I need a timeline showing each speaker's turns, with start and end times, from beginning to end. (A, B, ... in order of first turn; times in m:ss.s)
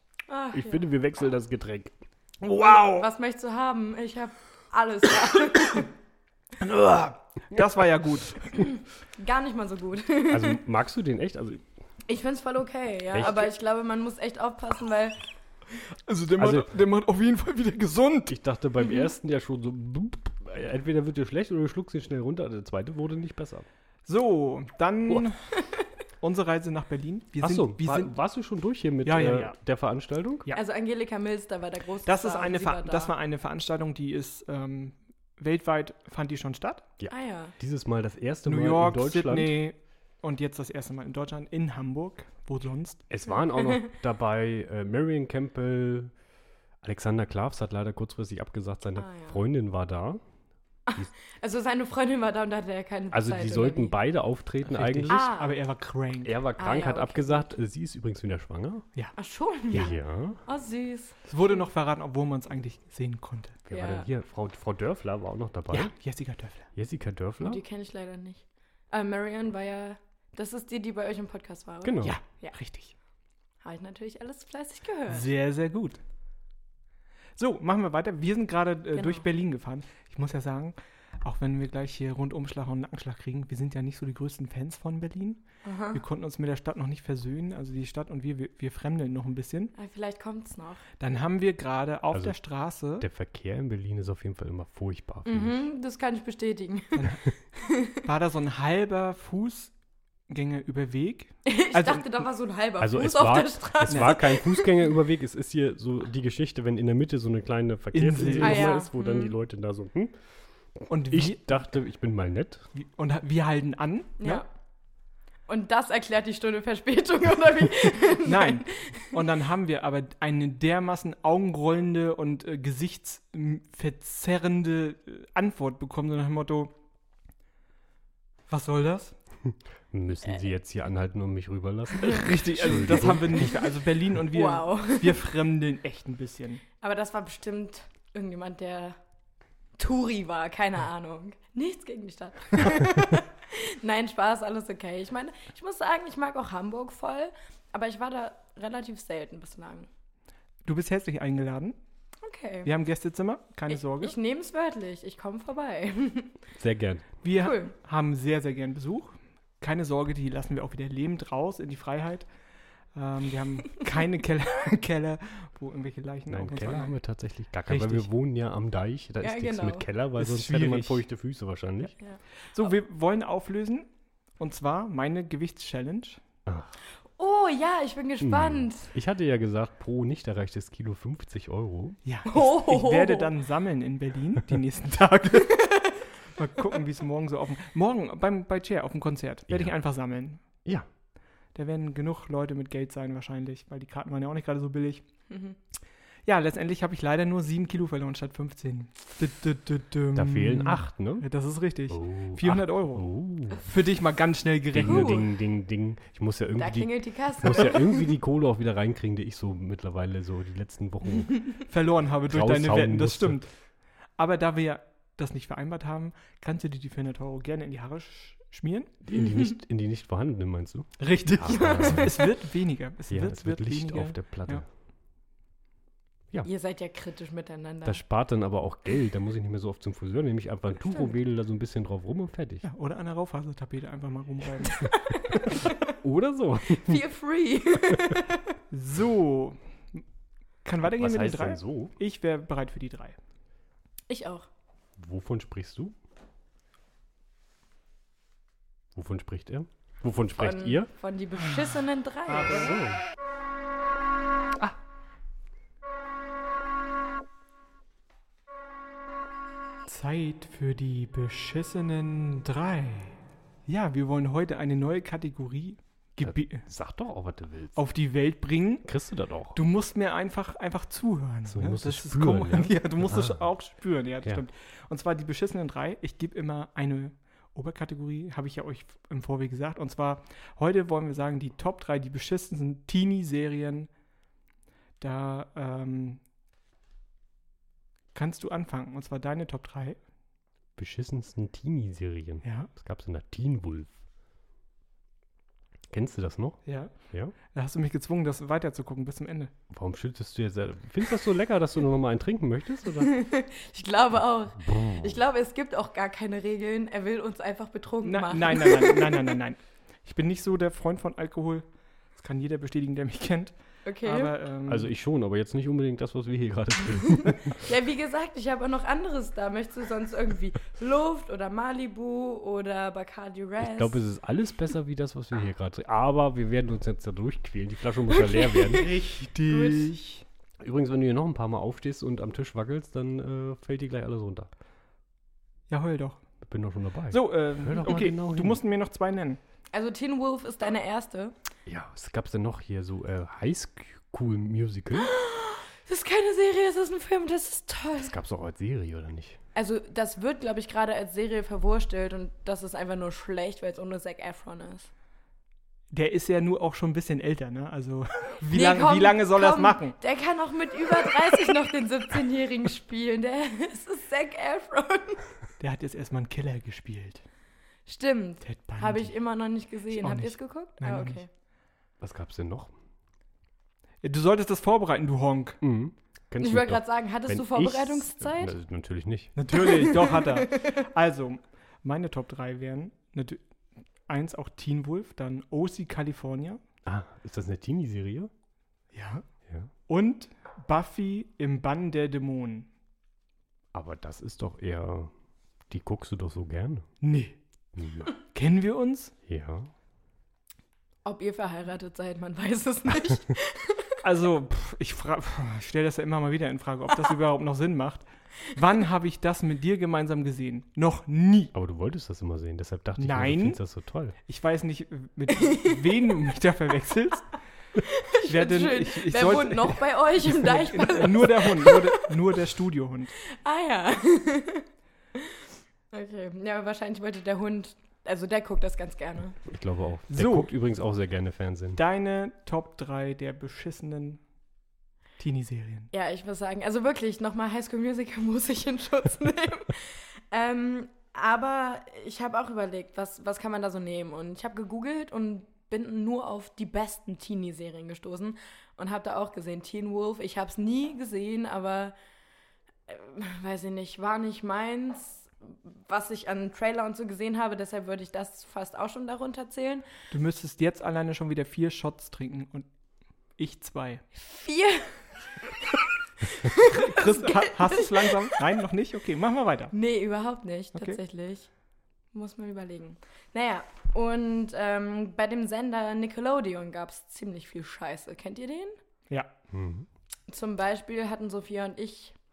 0:00.3-0:00.9 A
0:00.5-0:03.1 B
0:02.8-0:05.9 A
0:06.6-0:08.4 C
0:08.6-0:10.6 A
0:10.3-0:11.7 B
0:12.1-0:15.2 A
0:13.1-0:13.5 B
0:16.1-0:18.4 C
0:16.4-0:16.7 B
0:18.3-0:23.7 B
0:24.1-0:25.5 C
0:26.2-0:28.1 C
0:27.4-0:30.5 B
0:29.0-0:29.6 C
0:30.5-0:33.1 A
0:32.1-0:36.9 C
0:37.0-0:39.6 B
0:37.1-0:37.5 A
0:38.4-0:43.0 C
0:43.1-0:46.1 B
0:43.6-0:43.9 A
0:46.8-0:50.2 B
0:49.0-0:49.4 A
0:50.9-0:54.0 A
0:53.1-0:55.3 B
0:54.7-0:56.4 C
0:55.1-0:55.6 A
0:56.2-0:58.8 B
0:56.6-0:57.5 A
0:59.2-1:01.3 A
0:59.7-1:00.4 B
1:01.3-1:03.6 C
1:03.7-1:05.9 B
1:03.7-1:04.1 A
1:05.7-1:06.7 C
1:06.8-1:07.6 B
1:07.4-1:12.6 A
1:11.8-1:12.2 B
1:12.0-1:13.0 C
1:13.6-1:15.3 A
1:15.1-1:16.0 C
1:17.4-1:29.7 C
1:19.0-1:19.3 A
1:25.6-1:26.0 A
1:29.8-1:30.8 A
1:31.0-1:33.1 C
1:33.0-1:35.6 B
1:35.2-1:38.0 A
1:37.0-1:37.2 C
1:38.0-1:39.7 C
1:40.3-1:42.2 C
1:41.4-1:44.7 A
1:42.8-1:50.1 B
1:43.9-1:44.2 C
1:47.9-1:48.8 C
1:48.4-1:49.3 A
1:50.8-1:52.7 B
1:50.9-1:51.6 C
1:52.8-1:54.4 C
1:54.2-1:54.5 A
1:55.5-1:59.1 A
1:58.2-2:06.7 C
2:08.5-2:09.2 C
2:09.4-2:13.5 B
2:12.0-2:16.6 C
2:13.4-2:13.7 A
2:14.3-2:15.2 A
2:16.8-2:19.0 A
2:19.8-2:29.9 A
2:30.6-2:31.8 C
2:32.2-2:32.7 A
2:32.6-2:34.1 C
2:33.7-2:36.4 A
2:36.6-2:37.2 B
2:37.2-2:42.3 C
2:37.4-2:37.7 A
2:43.0-2:46.9 C
2:46.3-2:52.0 B
2:47.7-2:48.1 C
2:49.2-2:49.9 A
2:50.2-2:51.0 C
2:52.5-2:53.9 C
2:54.4-2:56.2 C
2:57.2-2:58.9 A
2:58.2-3:02.0 B
3:02.0-3:10.4 C
3:02.3-3:03.3 A
3:05.5-3:06.0 A
3:09.5-3:09.7 B
3:11.6-3:15.0 C
3:15.3-3:15.6 A
3:16.3-3:25.2 C
3:20.2-3:21.3 B
3:21.9-3:23.6 B
3:24.7-3:31.4 B
3:24.8-3:25.2 A
3:26.6-3:28.0 A
3:31.7-3:33.5 C
3:32.3-3:33.4 B
3:34.2-3:39.0 C
3:39.0-3:42.2 B
3:41.0-3:44.6 C
3:41.5-3:42.2 A
3:43.1-3:44.6 B
3:46.4-3:48.0 A
3:47.8-3:52.6 B
3:52.6-3:54.8 C
3:54.6-3:55.9 A
3:55.9-3:57.0 B
3:56.7-3:58.6 A
3:58.7-4:00.0 C
4:00.6-4:03.2 C
4:00.8-4:02.0 B
4:04.1-4:04.5 A
4:05.0-4:06.0 B
4:09.0-4:10.9 B
4:10.4-4:12.8 A
4:12.3-4:12.8 C
4:12.5-4:13.0 B
4:19.9-4:26.6 C
4:26.2-4:27.8 B
4:27.8-4:28.9 C
4:28.8-4:29.6 B
4:29.5-4:43.9 C
4:31.5-4:33.4 B
4:45.0-4:46.2 C
4:48.1-4:50.0 C
4:50.8-4:54.0 B
4:52.4-4:52.7 C
4:55.9-4:57.3 B
4:56.6-4:56.9 C
4:57.5-4:59.5 C
4:59.7-5:03.1 B
5:03.0-5:09.3 A
5:04.6-5:05.1 B
5:08.0-5:14.9 C
5:13.8-5:14.3 A
5:14.7-5:17.6 B
5:17.1-5:24.0 A
5:23.6-5:29.0 B
5:28.1-5:30.0 A
5:28.7-5:30.2 C
5:30.6-5:34.5 B
5:35.7-5:36.2 C
5:36.4-5:38.6 B
5:37.1-5:39.4 C
5:39.7-5:41.4 A
5:41.7-5:45.1 B
5:44.9-5:48.1 A
5:48.0-5:49.4 B
5:49.6-5:54.9 A
5:55.9-6:00.0 C
5:58.5-6:05.2 A
6:05.6-6:07.2 C
6:07.9-6:11.3 A
6:08.4-6:09.1 C
6:09.9-6:11.2 C
6:12.0-6:12.7 B
6:14.0-6:15.6 C
6:15.6-6:19.3 B
6:16.4-6:18.5 A
6:19.4-6:23.4 C
6:19.5-6:20.8 A
6:24.1-6:26.6 C
6:26.9-6:28.3 B
6:28.9-6:29.2 C
6:29.9-6:32.7 C
6:33.7-6:35.1 B
6:35.7-6:36.9 B
6:37.0-6:37.4 C
6:37.8-6:38.1 B
6:38.3-6:39.1 C
6:39.3-6:39.7 B
6:41.0-6:44.0 A
6:44.0-6:51.5 C
6:51.5-6:54.2 B
6:53.0-6:53.6 C
6:54.3-6:57.3 C
6:55.4-6:56.1 A
6:57.8-7:02.1 A
6:58.2-7:03.2 C
7:03.3-7:09.4 A
7:09.4-7:11.8 B
7:10.1-7:10.5 C
7:11.8-7:14.2 C
7:15.2-7:15.9 C
7:15.9-7:32.0 A
7:32.9-7:39.9 A
7:40.1-7:42.7 C
7:43.4-7:44.0 C
7:44.1-7:45.7 A
7:46.3-7:48.4 A
7:46.6-7:49.7 C
7:49.7-7:51.5 A
7:52.1-7:58.8 A
7:59.5-7:59.9 B
8:00.3-8:02.2 A